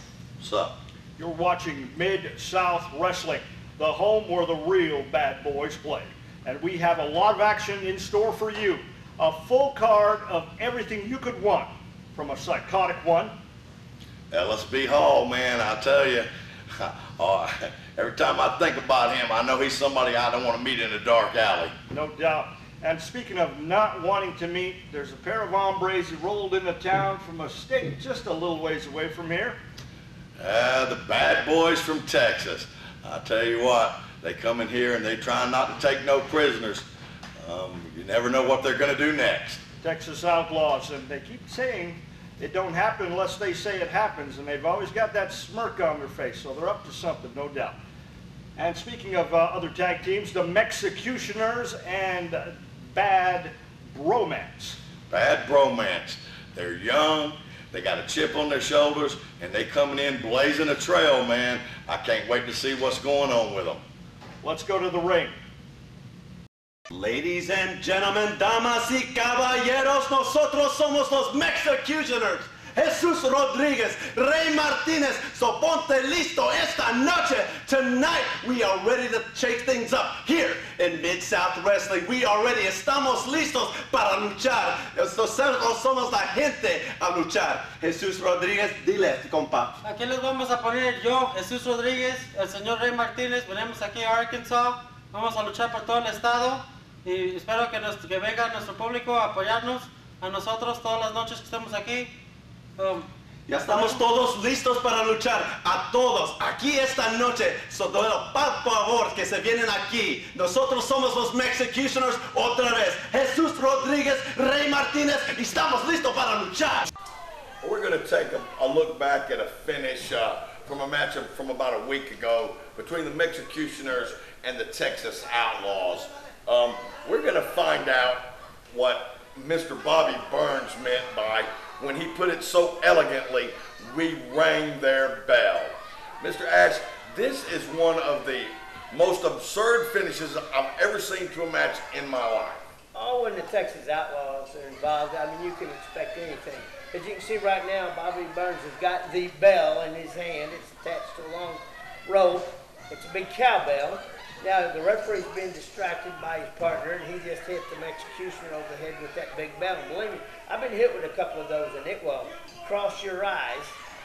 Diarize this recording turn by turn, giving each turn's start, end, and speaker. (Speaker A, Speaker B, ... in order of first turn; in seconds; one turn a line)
Speaker A: 0.4-0.8
Speaker B: 1.2-13.3
Speaker A: 14.3-21.7
Speaker B: 21.9-29.6
Speaker A: 30.4-36.9
Speaker A: 37.4-39.6
Speaker B: 39.8-47.8
Speaker B: 48.6-54.8
Speaker A: 55.1-63.8
Speaker B: 64.4-65.4
Speaker C: 66.9-89.8
Speaker D: 89.8-102.1
Speaker D: 102.8-103.1
Speaker C: 103.5-116.9
Speaker D: 103.6-104.0
Speaker A: 117.6-142.7
Speaker E: 142.9-163.8